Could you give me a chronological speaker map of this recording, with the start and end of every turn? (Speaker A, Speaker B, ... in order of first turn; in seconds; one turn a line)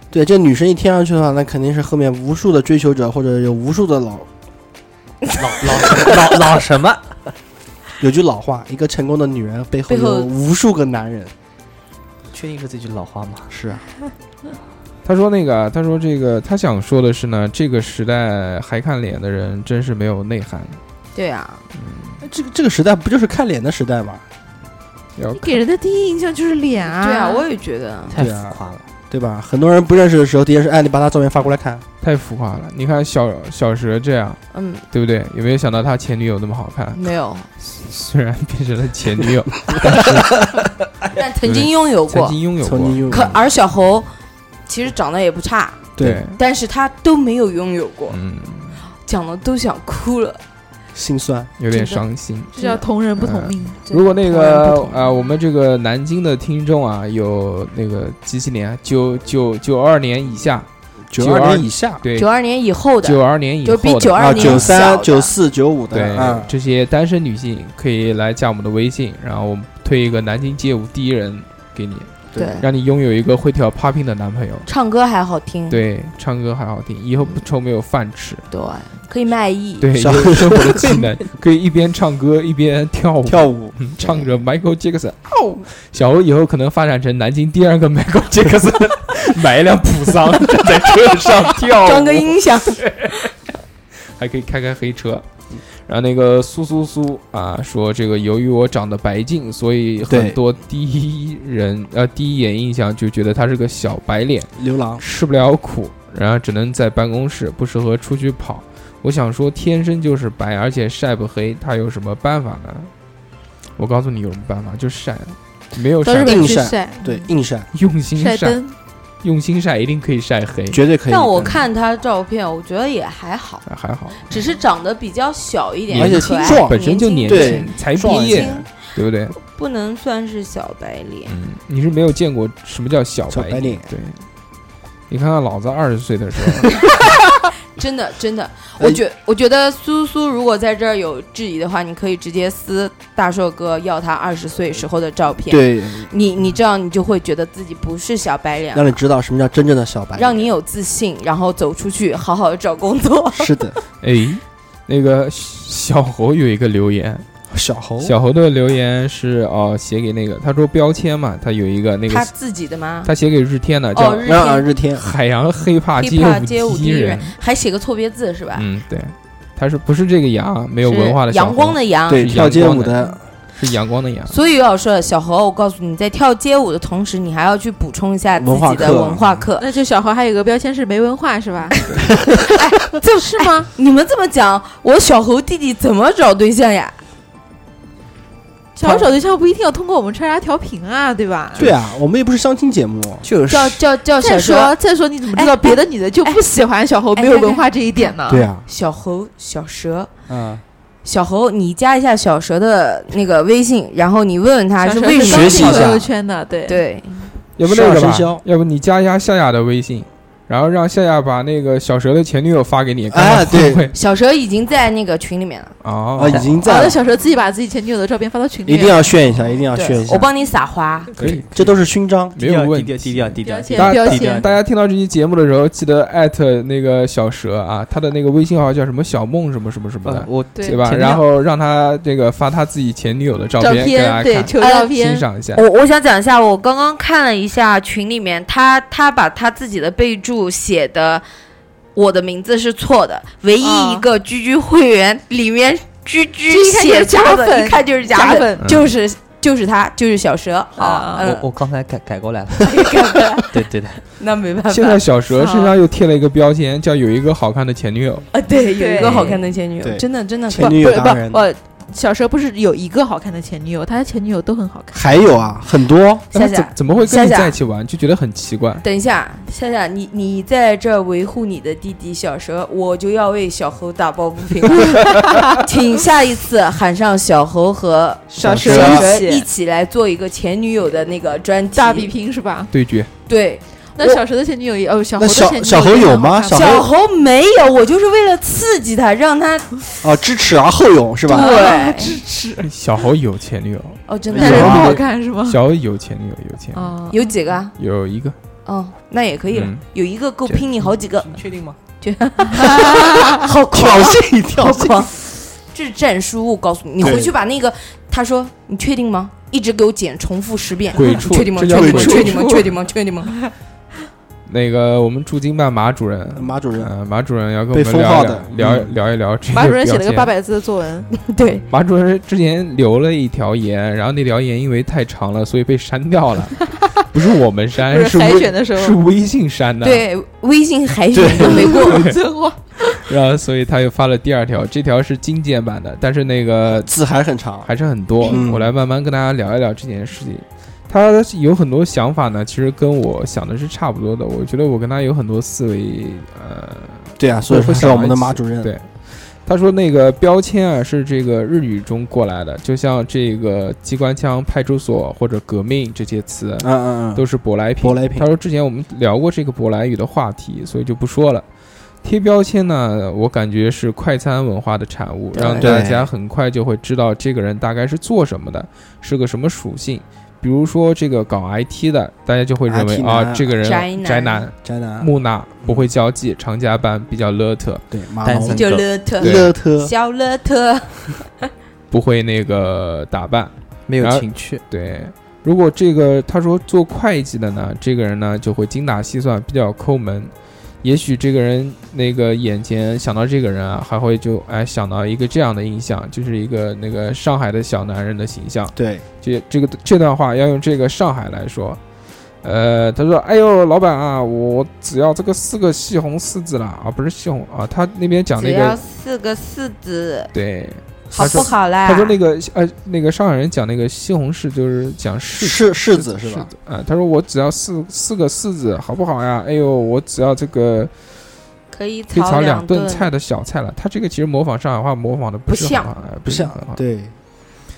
Speaker A: 0.1-4.3
Speaker B: 5.4-7.0
Speaker A: 8.0-11.3
Speaker C: 9.9-10.3
Speaker B: 12.3-13.5
Speaker A: 13.5-13.8
Speaker D: 15.0-20.8
Speaker C: 21.1-21.6
Speaker D: 21.8-22.2
Speaker A: 22.2-24.2
Speaker D: 25.2-25.6
Speaker E: 25.4-27.5
Speaker C: 26.9-28.2
Speaker B: 28.1-28.9
Speaker A: 28.2-28.6
Speaker A: 29.1-31.8
Speaker D: 32.0-37.0
Speaker C: 34.5-34.8
Speaker C: 37.0-37.5
Speaker D: 37.6-40.7
Speaker C: 41.1-42.4
Speaker D: 41.4-43.2
Speaker A: 42.6-43.4
Speaker C: 43.1-44.1
Speaker C: 44.7-45.9
Speaker A: 46.0-46.2
Speaker D: 46.0-46.4
Speaker C: 46.4-48.2
Speaker D: 48.1-48.8
Speaker C: 49.0-50.4
Speaker A: 50.9-51.5
Speaker D: 51.6-52.5
Speaker C: 51.7-52.0
Speaker E: 52.5-53.8
Speaker C: 52.6-52.8
Speaker D: 53.2-62.3
Speaker C: 53.9-55.0
Speaker A: 61.1-62.0
Speaker C: 62.2-65.3
Speaker D: 63.0-64.8
Speaker A: 64.2-66.5
Speaker D: 65.9-72.1
Speaker A: 72.3-72.6
Speaker C: 72.4-72.7
Speaker D: 72.6-74.7
Speaker C: 74.7-75.8
Speaker D: 75.7-78.5
Speaker C: 78.5-79.9
Speaker D: 79.8-93.3
Speaker A: 79.9-81.1
Speaker A: 83.3-83.8
Speaker C: 91.8-92.8
Speaker D: 94.2-95.2
Speaker D: 95.9-112.9
Speaker A: 100.1-100.4
Speaker A: 104.6-105.0
Speaker D: 113.8-116.7
Speaker E: 116.0-117.3
Speaker A: 116.2-117.7
Speaker D: 117.7-118.6
Speaker E: 118.2-118.8
Speaker D: 119.2-120.8
Speaker A: 120.7-121.6
Speaker C: 121.1-123.6
Speaker D: 123.7-124.4
Speaker C: 124.2-128.7
Speaker D: 125.9-129.3
Speaker A: 125.9-128.7
Speaker C: 129.4-131.3
Speaker D: 131.3-134.2
Speaker A: 133.3-133.9
Speaker D: 135.1-136.8
Speaker C: 137.7-149.0
Speaker A: 145.5-146.1
Speaker A: 148.7-150.5
Speaker C: 150.2-153.5
Speaker A: 153.4-153.8
Speaker D: 154.0-157.3
Speaker A: 157.5-158.2
Speaker D: 158.0-162.3
Speaker C: 162.1-163.1
Speaker D: 163.1-164.3
Speaker C: 163.9-164.7
Speaker A: 164.2-165.1
Speaker D: 164.9-167.3
Speaker C: 166.0-168.7
Speaker D: 168.6-174.3
Speaker C: 170.9-172.3
Speaker A: 172.1-173.2
Speaker C: 174.3-179.7
Speaker A: 178.4-179.4
Speaker E: 179.6-181.9
Speaker C: 182.5-187.0
Speaker E: 183.2-183.5
Speaker E: 188.8-191.7
Speaker A: 188.8-189.1
Speaker A: 191.6-193.3
Speaker B: 193.2-193.8
Speaker C: 193.5-194.8
Speaker E: 194.2-198.5
Speaker C: 195.3-196.4
Speaker C: 197.1-200.1
Speaker A: 198.3-198.6
Speaker A: 200.3-200.6
Speaker C: 201.1-206.0
Speaker E: 204.8-206.8
Speaker A: 205.2-206.1
Speaker C: 206.7-207.3
Speaker D: 207.6-213.9
Speaker A: 207.6-208.4
Speaker A: 213.1-213.9
Speaker C: 213.9-215.7
Speaker D: 215.8-216.6
Speaker A: 216.2-217.0
Speaker B: 216.3-216.7
Speaker E: 216.6-219.3
Speaker A: 218.7-220.3
Speaker C: 219.7-221.1
Speaker B: 221.2-221.4
Speaker D: 221.2-235.6
Speaker A: 221.2-222.3
Speaker B: 222.4-224.6
Speaker E: 223.4-224.4
Speaker B: 230.0-231.2
Speaker E: 230.6-231.1
Speaker E: 233.6-235.3
Speaker C: 234.6-235.0
Speaker C: 235.5-241.2
Speaker C: 241.9-251.5
Speaker E: 243.6-244.1
Speaker E: 246.5-248.8
Speaker E: 250.8-251.3
Speaker B: 251.2-253.0
Speaker C: 252.6-253.6
Speaker B: 253.5-254.0
Speaker C: 254.2-255.0
Speaker D: 254.7-258.3
Speaker E: 255.3-255.8
Speaker C: 258.3-261.2
Speaker E: 258.8-259.5
Speaker A: 259.8-261.4
Speaker E: 260.6-265.3
Speaker A: 264.9-266.3
Speaker C: 266.3-267.6
Speaker D: 266.3-268.9
Speaker C: 268.8-282.1
Speaker E: 275.1-275.6
Speaker E: 278.3-279.5
Speaker A: 278.4-279.1
Speaker E: 281.7-282.7
Speaker D: 282.7-283.1
Speaker C: 283.3-284.2
Speaker E: 284.0-286.8
Speaker A: 285.2-286.9
Speaker C: 286.5-289.7
Speaker A: 290.0-291.6
Speaker C: 291.3-292.2
Speaker E: 291.3-292.7
Speaker D: 292.6-296.9
Speaker C: 294.1-294.9
Speaker A: 294.3-295.0
Speaker E: 294.4-295.6
Speaker E: 296.7-297.3
Speaker C: 297.1-297.7
Speaker D: 297.8-298.4
Speaker C: 298.7-301.4
Speaker D: 299.5-299.8
Speaker B: 301.2-301.8
Speaker C: 302.0-313.3
Speaker A: 303.4-305.1
Speaker A: 307.0-307.3
Speaker D: 310.9-312.4
Speaker A: 311.7-312.2
Speaker E: 311.8-312.7
Speaker D: 314.5-320.3
Speaker A: 316.4-316.9
Speaker A: 317.7-318.9
Speaker E: 319.5-321.1
Speaker C: 321.2-321.6
Speaker D: 321.7-330.1
Speaker E: 327.9-329.0
Speaker C: 329.8-332.1
Speaker A: 331.1-331.7
Speaker E: 331.4-333.1
Speaker D: 331.8-332.2
Speaker D: 332.9-336.9
Speaker A: 336.8-337.7
Speaker D: 337.6-348.9
Speaker A: 338.2-338.7
Speaker A: 347.2-348.7
Speaker D: 349.4-361.4
Speaker A: 356.6-357.2
Speaker A: 357.8-358.3
Speaker D: 362.0-377.8
Speaker C: 365.3-365.8
Speaker A: 365.4-366.1
Speaker A: 372.7-373.5
Speaker C: 373.6-374.5
Speaker A: 374.6-375.1
Speaker A: 375.6-375.9
Speaker A: 377.9-378.7
Speaker B: 378.2-378.9
Speaker C: 378.5-381.5
Speaker A: 379.2-379.9
Speaker D: 379.2-379.5
Speaker D: 381.9-390.3
Speaker B: 383.9-384.6
Speaker D: 390.8-401.8
Speaker A: 398.8-399.0
Speaker D: 402.4-408.8
Speaker C: 408.4-410.3
Speaker D: 410.3-420.9
Speaker C: 411.1-412.2
Speaker A: 415.3-416.5
Speaker C: 421.7-423.1
Speaker D: 422.1-426.8
Speaker C: 425.5-425.9
Speaker A: 426.2-427.1